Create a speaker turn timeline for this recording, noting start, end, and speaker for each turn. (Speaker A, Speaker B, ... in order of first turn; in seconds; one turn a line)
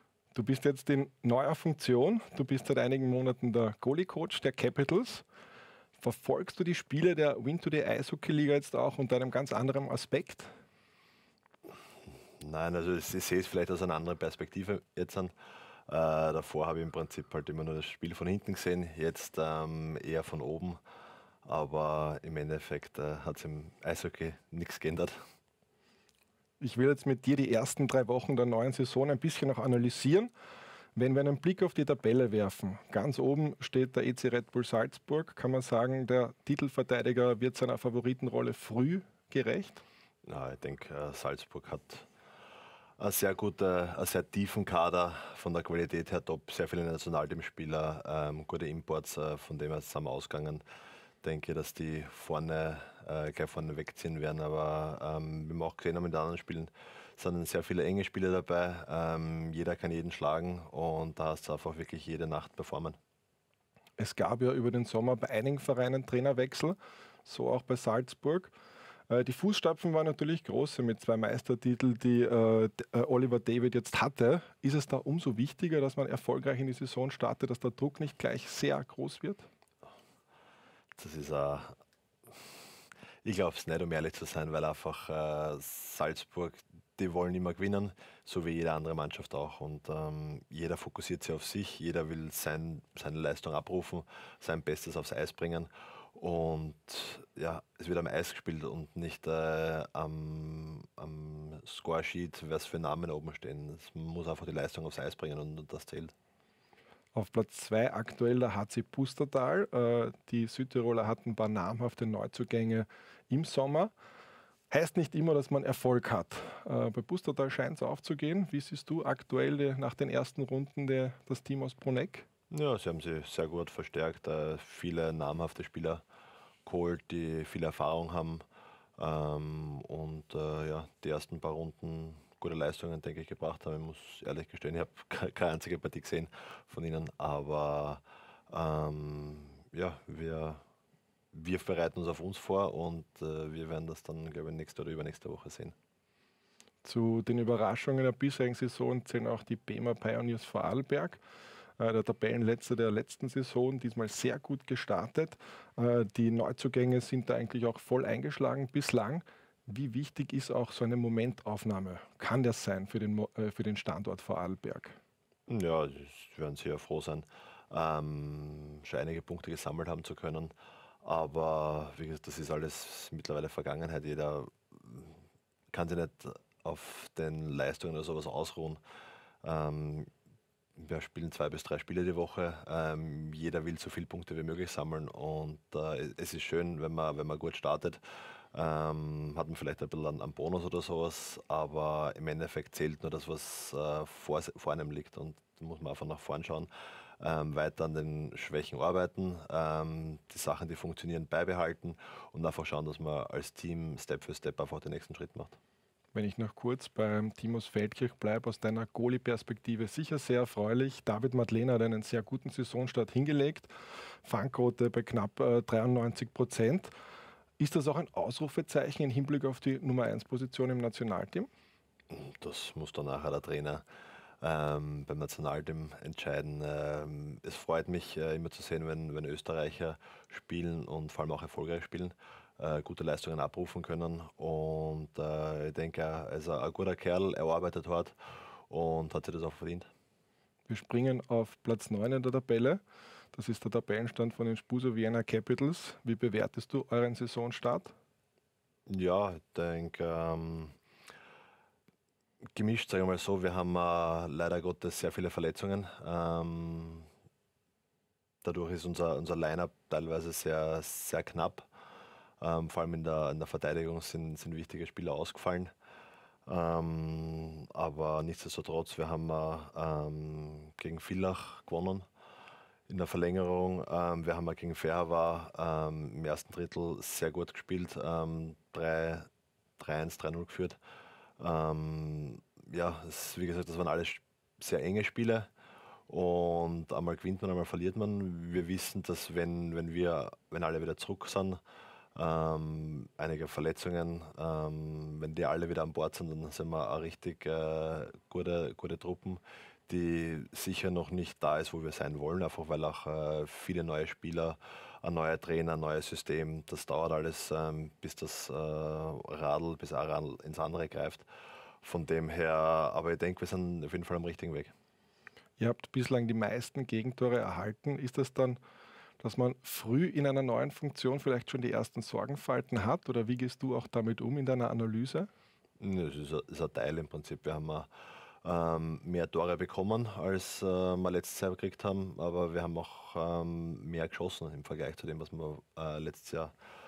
Speaker A: 0.3-5.2
Speaker A: 6.0-10.5
Speaker B: 12.4-15.3
Speaker B: 15.9-20.8
Speaker B: 21.4-25.1
Speaker A: 26.6-30.3
Speaker A: 31.0-39.8
Speaker B: 40.2-42.0
Speaker B: 43.0-50.6
Speaker B: 51.2-63.0
Speaker A: 64.0-68.5
Speaker A: 69.1-79.5
Speaker B: 81.0-81.7
Speaker B: 83.2-106.1
Speaker A: 107.1-113.9
Speaker A: 114.7-122.2
Speaker B: 122.5-126.0
Speaker B: 126.7-128.4
Speaker B: 129.0-140.6
Speaker B: 141.3-145.7
Speaker A: 146.8-151.2
Speaker A: 151.8-165.0
Speaker B: 165.5-175.2
Speaker B: 175.7-178.8
Speaker B: 179.4-180.1
Speaker B: 180.8-188.0
Speaker B: 188.5-196.7
Speaker B: 197.2-205.6
Speaker A: 206.1-213.7
Speaker A: 214.2-216.9
Speaker A: 217.6-221.5
Speaker B: 222.1-223.8
Speaker B: 224.4-238.2
Speaker B: 238.7-239.9
Speaker A: 240.7-242.8
Speaker A: 243.3-247.9
Speaker B: 248.9-250.7
Speaker B: 252.6-257.1
Speaker B: 258.4-261.7
Speaker B: 262.4-265.7
Speaker B: 266.4-272.1
Speaker B: 272.9-279.3
Speaker B: 279.8-280.8
Speaker B: 281.4-285.5
Speaker B: 286.1-291.6
Speaker B: 292.1-311.2
Speaker B: 311.8-314.7
Speaker A: 315.6-318.6
Speaker A: 319.2-325.3
Speaker B: 325.8-327.9
Speaker B: 328.4-336.5